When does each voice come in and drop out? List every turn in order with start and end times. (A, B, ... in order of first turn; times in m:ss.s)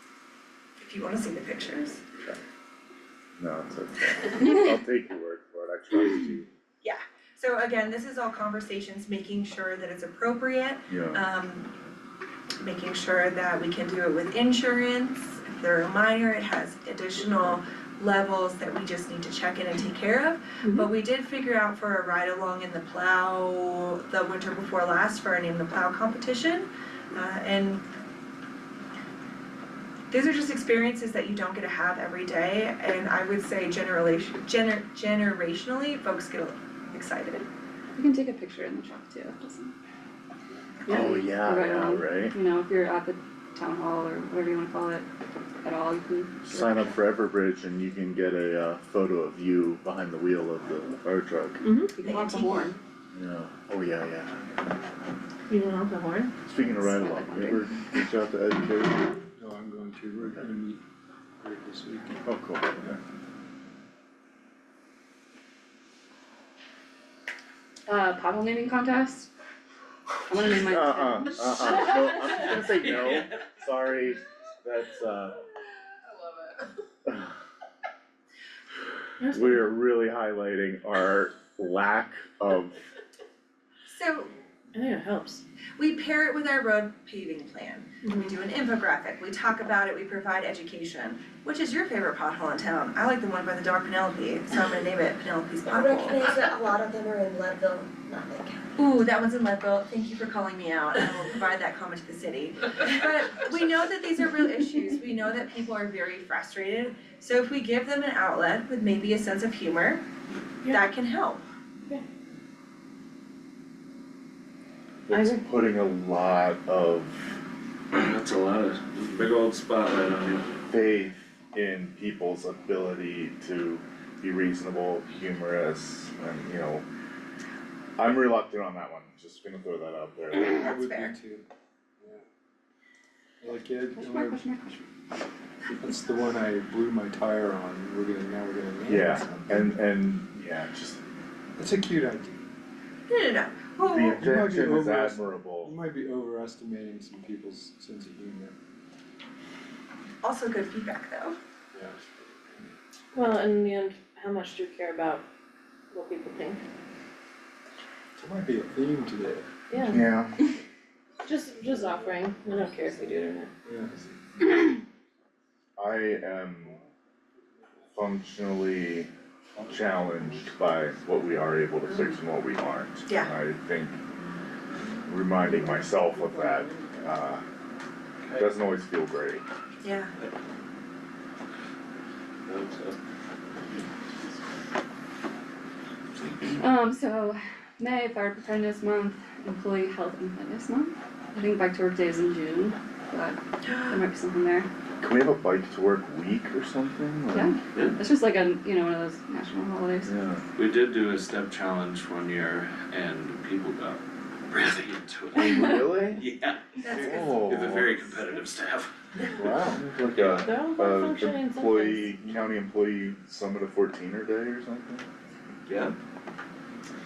0:00.8-0:02.0 A
0:03.4-0:06.5 B
0:06.8-0:11.7 A
0:10.9-0:11.2 B
0:12.6-0:27.8 A
0:30.1-0:37.4 A
0:37.9-0:39.7 C
0:40.9-0:45.0 C
0:40.9-0:42.3 B
0:45.6-0:46.9 C
0:46.4-0:51.6 B
0:51.6-0:51.9 D
0:52.0-0:52.8 C
0:52.0-0:52.7 A
0:53.1-0:54.6 B
0:55.5-0:56.3 D
0:56.4-0:59.1 B
0:56.6-0:57.7 C
0:59.4-1:00.8 E
1:01.4-1:02.2 E
1:02.2-1:03.0 B
1:07.9-1:09.3 C
1:10.3-1:12.1 C
1:10.5-1:15.4 B
1:12.4-1:13.4 F
1:19.2-1:19.7 D
1:19.3-1:22.9 B
1:23.9-1:24.3 A
1:24.7-1:25.4 D
1:25.8-1:36.3 A
1:28.0-1:28.4 D
1:35.7-1:38.6 G
1:38.8-1:50.0 A
1:50.7-1:51.4 A
1:55.1-1:57.4 B
1:55.1-1:55.4 D
1:57.9-2:00.5 F
2:00.7-2:06.8 B
2:08.0-2:10.7 B
2:10.4-2:11.1 A
2:10.5-2:11.4 E
2:13.4-2:14.4 E
2:13.9-2:14.9 C
2:15.7-2:19.7 E
2:18.8-2:21.0 B
2:21.6-2:22.4 E
2:23.1-2:24.3 A
2:23.8-2:25.7 B
2:24.1-2:28.5 E
2:30.2-2:31.4 A
2:31.7-2:32.7 E
2:33.1-2:35.2 D
2:35.9-2:36.6 D
2:38.2-2:40.0 E
2:39.7-2:40.0 D
2:39.9-2:40.4 B
2:41.2-2:43.5 D
2:43.6-2:44.2 E
2:45.8-2:46.8 B
2:47.9-2:54.0 B
2:53.1-2:53.3 A
2:55.1-2:57.4 B
2:58.4-2:59.4 B
2:59.8-3:00.1 A
3:02.5-3:03.0 F
3:06.6-3:14.7 C
3:13.6-3:14.0 A
3:15.0-3:17.6 B
3:17.3-3:20.1 C
3:17.7-3:18.0 F
3:20.0-3:20.4 B
3:20.6-3:29.3 F
3:25.3-3:26.2 B
3:25.5-3:25.7 C
3:26.8-3:27.4 A
3:27.0-3:27.9 B
3:29.3-3:35.1 B
3:30.0-3:30.5 F
3:30.4-3:32.4 D
3:35.7-3:35.9 F